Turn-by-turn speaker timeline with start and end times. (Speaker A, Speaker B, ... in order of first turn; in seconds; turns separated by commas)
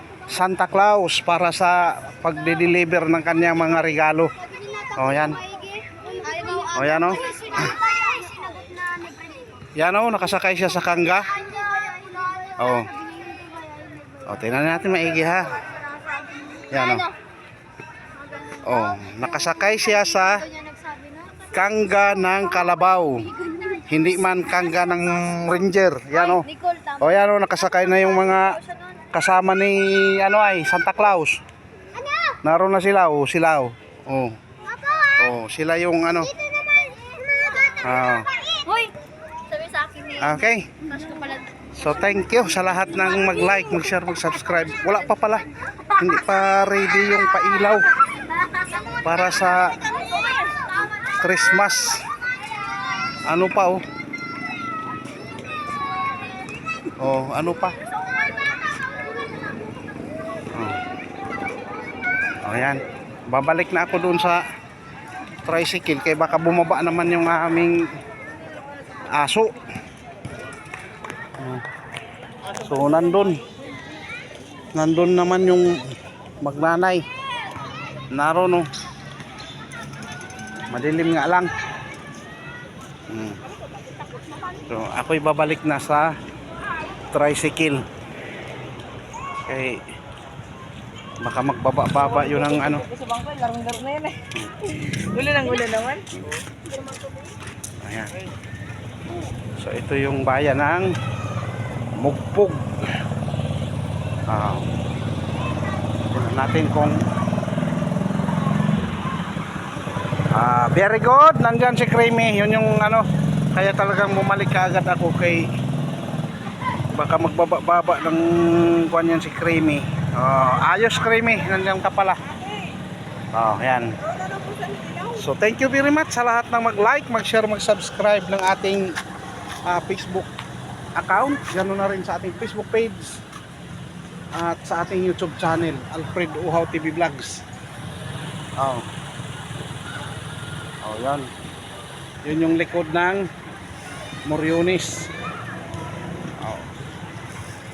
Speaker A: 0.3-4.3, Speaker B: 4.6-9.6, Speaker A: 5.0-5.4, Speaker A: 6.7-7.7, Speaker A: 9.8-11.4, Speaker B: 11.5-14.2, Speaker A: 12.6-12.9, Speaker A: 14.2-15.6, Speaker B: 15.8-17.1, Speaker A: 16.7-17.1, Speaker B: 18.4-21.5, Speaker A: 18.6-20.5, Speaker A: 21.5-26.5, Speaker B: 23.4-23.9, Speaker B: 26.3-27.1, Speaker A: 27.0-28.6, Speaker B: 28.0-28.8, Speaker A: 29.1-31.4, Speaker A: 32.4-34.4, Speaker B: 34.8-35.1, Speaker A: 35.2-36.3, Speaker B: 36.8-37.8, Speaker A: 37.8-38.3, Speaker B: 38.6-38.9, Speaker B: 39.5-41.5, Speaker A: 40.2-40.7, Speaker A: 41.7-47.9, Speaker B: 48.6-48.8, Speaker A: 49.0-49.8, Speaker B: 49.9-50.8, Speaker A: 51.1-52.0, Speaker A: 53.2-53.8, Speaker A: 57.0-57.8, Speaker A: 60.5-60.8, Speaker A: 62.4-64.5, Speaker A: 65.5-67.8, Speaker A: 69.1-69.6, Speaker A: 72.5-73.4, Speaker A: 74.8-75.8, Speaker A: 76.4-77.0, Speaker A: 78.1-78.7, Speaker A: 80.7-81.5, Speaker A: 83.1-83.4, Speaker A: 84.7-86.1, Speaker A: 87.1-87.8, Speaker A: 89.5-89.8, Speaker A: 91.2-92.9, Speaker C: 92.9-94.2, Speaker A: 94.3-94.7, Speaker C: 95.1-96.1, Speaker B: 95.4-95.7, Speaker A: 96.1-96.4, Speaker A: 97.8-98.1, Speaker A: 99.6-100.9, Speaker A: 102.0-102.6, Speaker A: 104.3-104.7, Speaker A: 106.1-107.0, Speaker A: 110.3-115.5, Speaker A: 116.9-122.2, Speaker A: 123.3-123.9, Speaker C: 124.4-125.0, Speaker A: 125.1-128.9, Speaker A: 129.7-130.3, Speaker A: 131.0-133.1, Speaker A: 134.3-137.4, Speaker A: 138.6-138.9, Speaker A: 140.8-141.3, Speaker A: 142.2-143.2, Speaker A: 144.3-145.0, Speaker A: 146.4-146.7